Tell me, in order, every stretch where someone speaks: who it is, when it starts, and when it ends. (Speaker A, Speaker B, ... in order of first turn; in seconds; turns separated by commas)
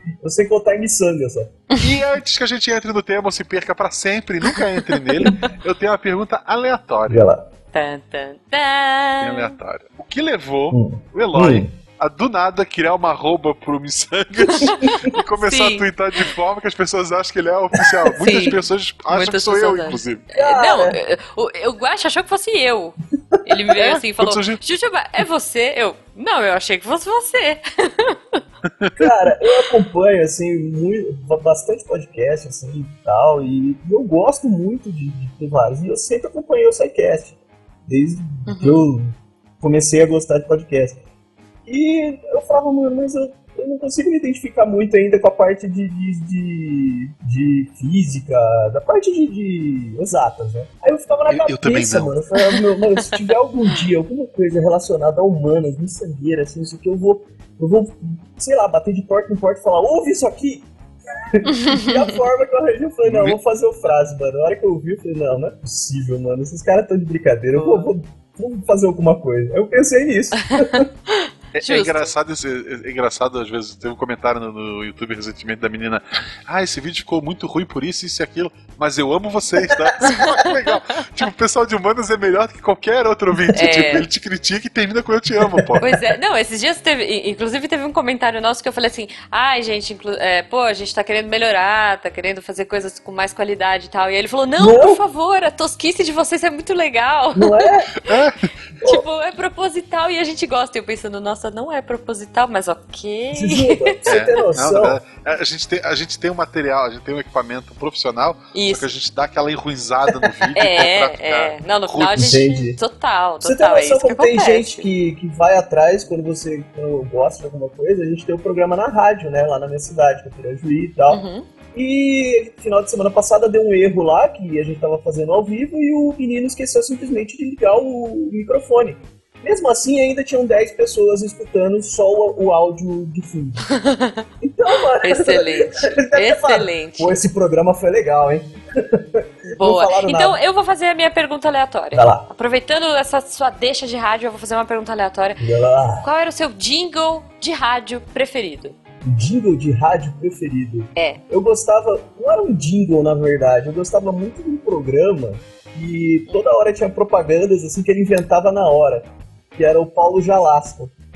Speaker A: 0.2-1.5, Speaker B: 1.8-7.2, Speaker C: 4.5-5.3, Speaker A: 7.1-7.4, Speaker C: 7.7-9.6, Speaker B: 9.2-20.2, Speaker A: 10.7-11.7, Speaker C: 14.5-16.3, Speaker A: 14.8-15.1, Speaker A: 17.8-18.6, Speaker C: 18.2-18.6, Speaker C: 19.1-28.4, Speaker A: 20.3-21.0, Speaker B: 23.8-24.6, Speaker A: 29.0-41.0, Speaker C: 38.5-38.9, Speaker A: 41.6-60.7, Speaker B: 51.3-52.1, Speaker C: 52.4-53.1, Speaker A: 61.3-70.9, Speaker C: 61.5-62.0, Speaker B: 63.0-63.4, Speaker C: 67.5-67.9, Speaker C: 70.7-72.1, Speaker B: 71.5-85.9, Speaker C: 80.0-80.5, Speaker C: 83.5-84.1, Speaker A: 85.5-85.8, Speaker C: 85.8-98.2, Speaker A: 94.6-95.0, Speaker A: 97.3-97.9, Speaker B: 98.0-98.4, Speaker A: 98.8-99.0, Speaker C: 98.8-104.2, Speaker A: 103.3-105.0, Speaker B: 104.1-112.4, Speaker C: 108.5-108.9, Speaker C: 110.6-114.9, Speaker A: 112.2-112.8, Speaker A: 113.4-133.7, Speaker C: 121.1-121.5, Speaker C: 133.7-134.3, Speaker A: 134.4-140.4, Speaker C: 134.9-137.1, Speaker C: 139.6-145.4, Speaker A: 141.9-142.3, Speaker A: 145.4-146.1, Speaker C: 146.0-148.8, Speaker A: 149.0-160.9, Speaker C: 151.0-151.2